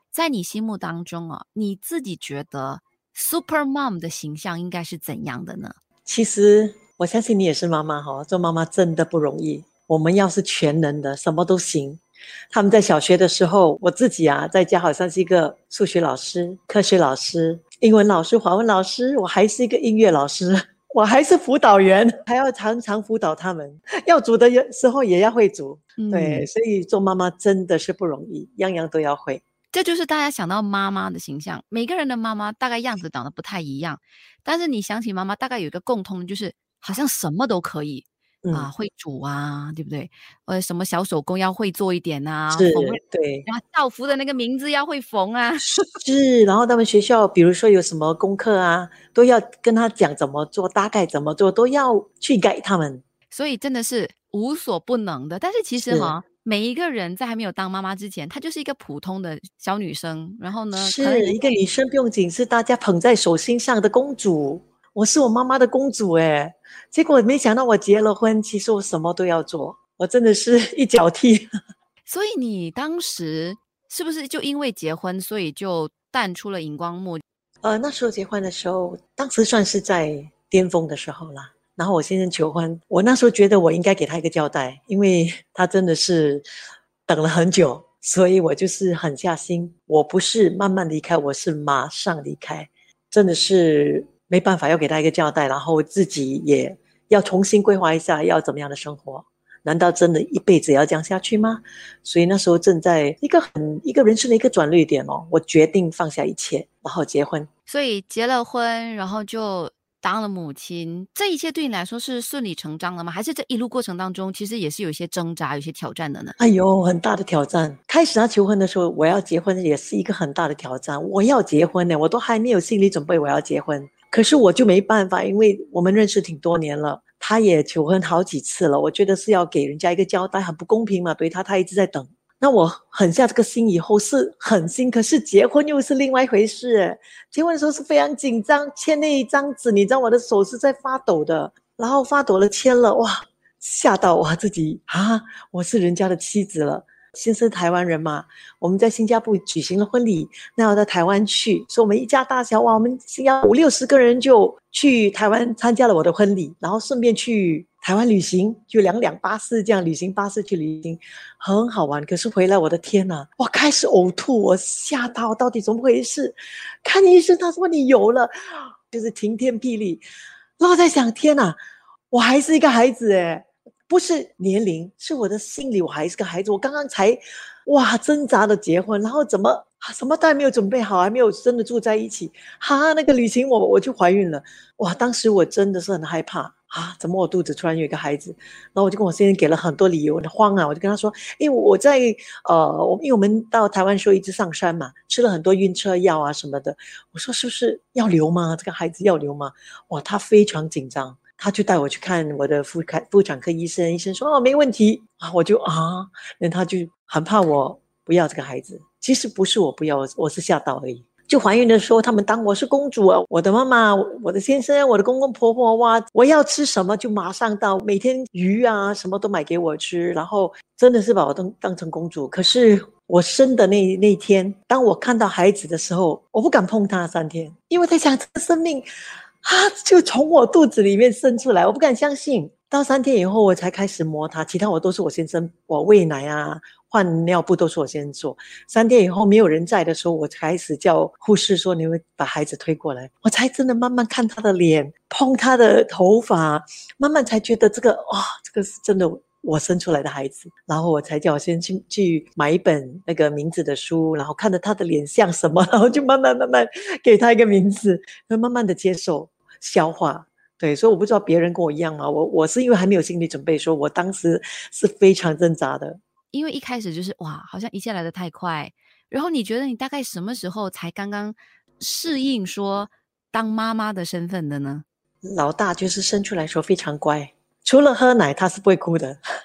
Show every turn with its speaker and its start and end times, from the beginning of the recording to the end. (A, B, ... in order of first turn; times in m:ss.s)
0:00.1-0:05.8 A
0:06.1-0:29.4 B
0:26.0-0:26.5 A
0:29.7-0:45.7 A
0:38.4-0:38.7 B
0:42.5-0:43.5 B
0:45.6-0:53.0 B
0:53.3-1:01.6 A
0:55.9-0:56.1 B
1:00.7-1:11.5 B
1:12.1-1:17.2 A
1:17.6-1:26.4 B
1:27.1-1:47.5 B
1:47.7-1:56.4 A
1:56.4-2:50.0 B
2:50.6-2:51.6 B
2:52.1-3:48.9 B
3:49.4-4:26.0 B
4:26.3-4:34.8 A
4:35.2-4:39.2 B